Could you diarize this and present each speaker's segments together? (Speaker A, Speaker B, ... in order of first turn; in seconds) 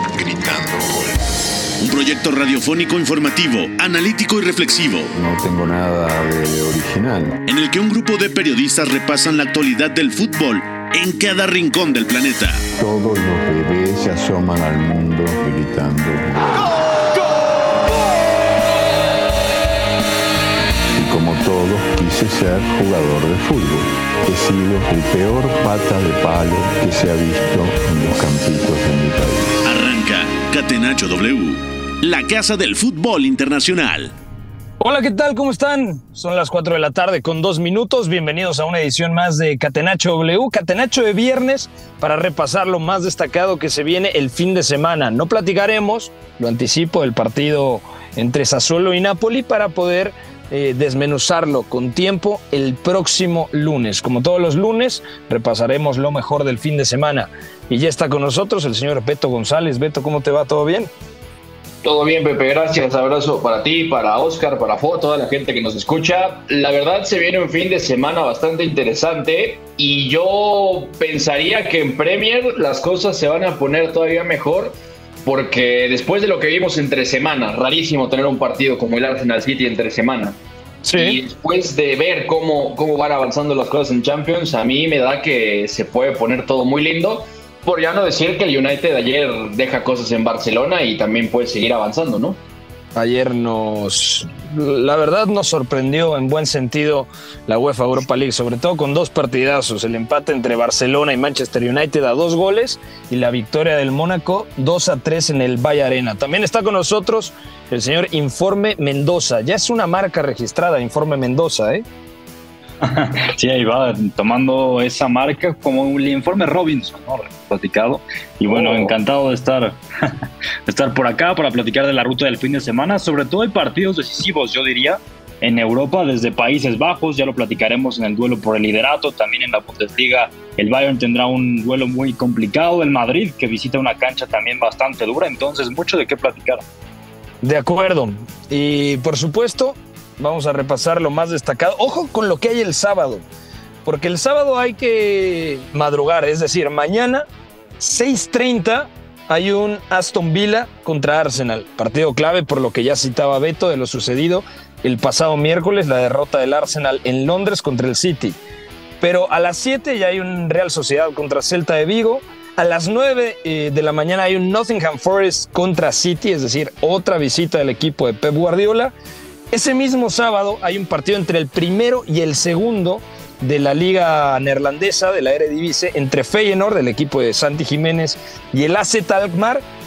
Speaker A: 0.4-0.9, 5.1-7.4, 12.8-16.7, 20.9-29.6
Speaker B: 1.8-5.1, 7.5-12.6, 29.6-34.1
Speaker C: 34.8-60.9, 80.8-81.2, 92.9-111.8, 118.5-118.9, 137.4-143.2, 143.8-147.2, 147.8-158.4, 159.0-168.9, 169.5-179.6
Speaker D: 61.8-80.4, 80.9-92.4
Speaker E: 112.8-120.1, 120.7-136.6